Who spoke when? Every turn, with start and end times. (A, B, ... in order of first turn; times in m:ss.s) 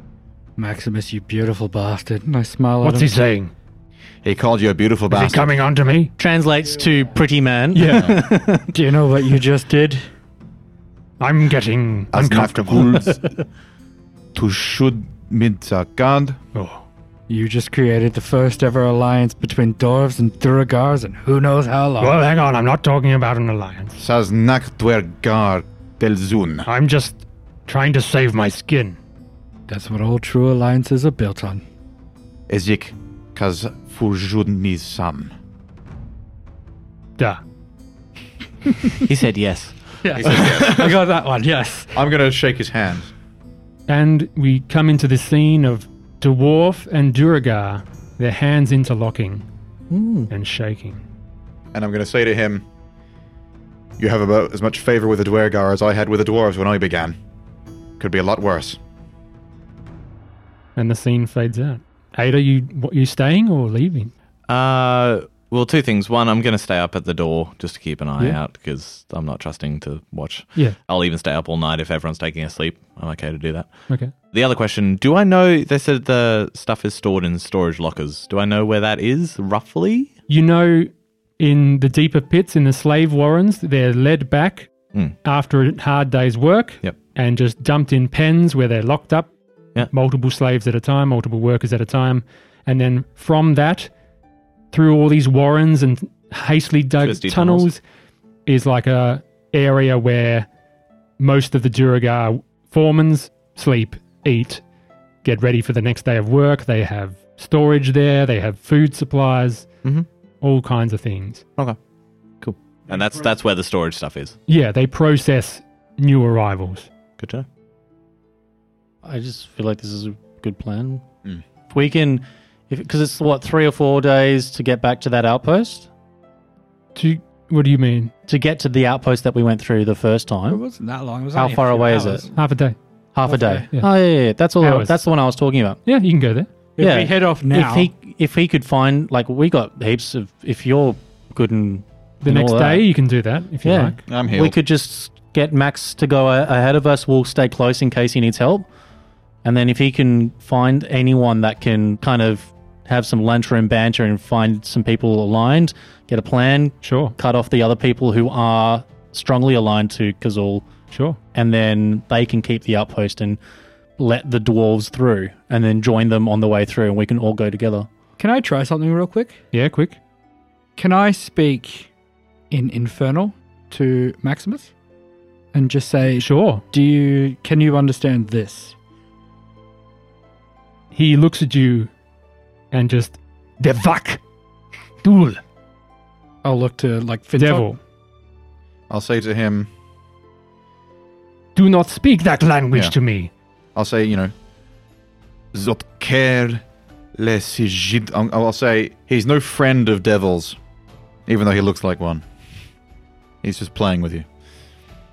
0:00.6-0:03.1 A
0:02.8-0:03.5 B
0:04.2-0:05.5 C
0:05.1-0:06.1 B
0:06.2-0:08.7 D
0:07.7-0:08.1 B
0:07.8-0:08.2 C
0:08.7-0:10.0 A
0:11.2-0:13.1 B
0:12.1-0:13.2 C
0:14.3-0:16.4 C
0:16.5-0:16.8 B
0:17.3-0:22.2 A
0:22.0-0:24.0 B
0:24.0-0:26.7 C
0:26.6-0:29.0 B
0:29.7-0:31.6 A
0:32.5-0:35.3 C
0:39.0-0:40.8 E
0:40.0-0:42.0 A
0:40.2-0:40.9 C
0:41.9-0:43.1 C
0:43.9-0:49.4 B
0:49.9-0:50.3 D
0:50.3-0:51.0 B
0:51.7-0:52.6 C
0:54.0-0:57.2 C
0:58.0-0:58.8 C
1:00.8-1:04.1 B
1:04.5-1:13.7 E
1:14.3-1:20.1 E
1:20.3-1:24.7 B
1:25.2-1:29.3 B
1:29.8-1:33.9 B
1:34.7-1:37.8 B
1:37.0-1:37.7 E
1:38.4-1:40.5 B
1:41.2-1:44.6 B
1:45.2-1:49.7 B
1:50.4-1:51.4 B
1:52.4-1:54.4 E
1:54.5-1:56.9 B
1:57.2-1:57.4 E
1:59.0-2:01.0 D
2:01.7-2:05.9 D
2:06.9-2:08.1 B
2:08.3-2:10.6 D
2:10.5-2:12.3 A
2:11.3-2:12.2 D
2:12.3-2:12.8 B
2:13.1-2:15.8 D
2:13.2-2:13.7 A
2:14.6-2:15.0 B
2:15.8-2:16.5 B
2:16.8-2:17.9 A
2:16.8-2:22.9 D
2:22.2-2:24.0 B
2:23.6-2:28.6 D
2:24.1-2:24.6 C
2:29.4-2:40.6 D
2:36.8-2:37.1 B
2:40.9-2:41.2 B
2:41.3-2:43.4 D
2:44.0-2:47.9 D
2:48.2-2:49.4 A
2:49.5-2:50.0 B
2:50.8-2:51.9 A
2:52.5-2:54.7 A
2:55.5-2:58.7 A
2:56.2-2:56.6 B
3:00.9-3:01.9 B
3:02.7-3:04.2 B
3:05.0-3:05.4 B
3:06.4-3:07.7 A
3:07.4-3:07.8 B
3:08.9-3:09.7 C
3:11.5-3:13.3 B
3:13.7-3:14.3 C
3:15.5-3:16.6 C
3:17.2-3:20.6 C
3:21.3-3:22.2 C
3:23.4-3:24.2 C